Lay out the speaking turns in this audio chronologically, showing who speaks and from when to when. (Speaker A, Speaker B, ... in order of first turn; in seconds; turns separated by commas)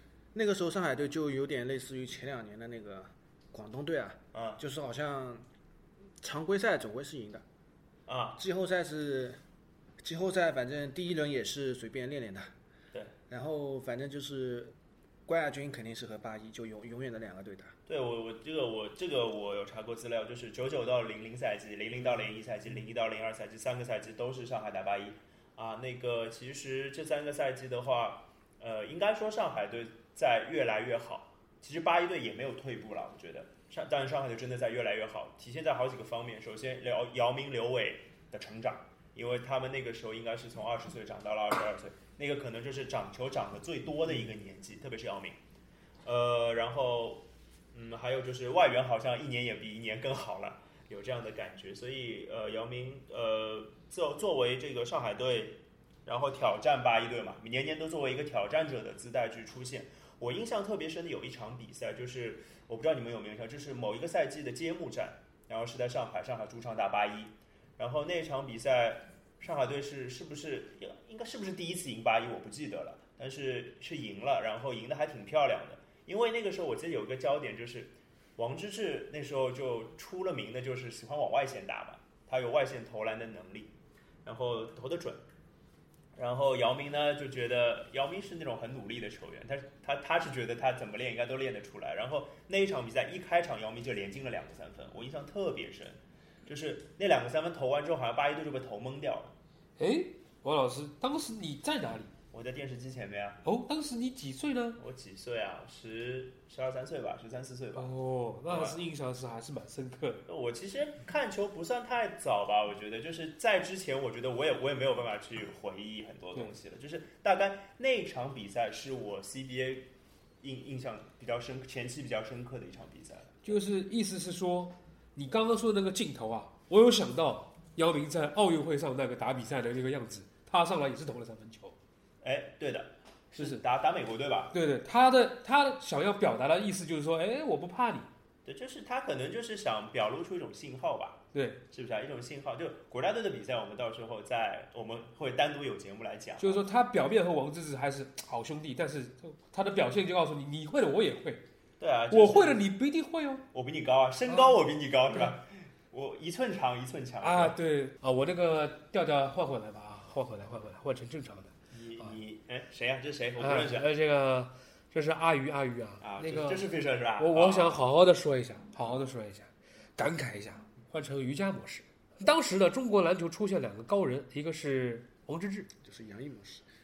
Speaker A: 0.3-5.4, Speaker B: 4.3-4.6, Speaker A: 6.2-7.4, Speaker B: 8.1-8.4, Speaker A: 8.4-9.4, Speaker A: 10.0-12.5, Speaker A: 13.3-14.7, Speaker A: 15.2-17.8, Speaker B: 17.9-45.4, Speaker B: 46.0-83.7, Speaker B: 84.2-85.2, Speaker B: 86.2-99.3, Speaker C: 99.8-102.1, Speaker B: 102.3-103.4, Speaker C: 103.4-104.8, Speaker B: 104.8-107.9, Speaker C: 107.8-110.2, Speaker B: 108.5-108.8, Speaker B: 110.3-119.9, Speaker B: 120.4-123.6, Speaker C: 123.4-131.8, Speaker B: 132.2-134.5, Speaker C: 134.5-138.1, Speaker B: 138.4-146.6, Speaker C: 141.3-141.6, Speaker C: 146.4-151.4, Speaker B: 151.8-152.6, Speaker C: 152.1-153.4, Speaker B: 153.5-157.6, Speaker C: 157.2-162.1, Speaker B: 161.7-163.9, Speaker C: 163.4-175.7, Speaker B: 166.0-167.8, Speaker A: 175.8-176.7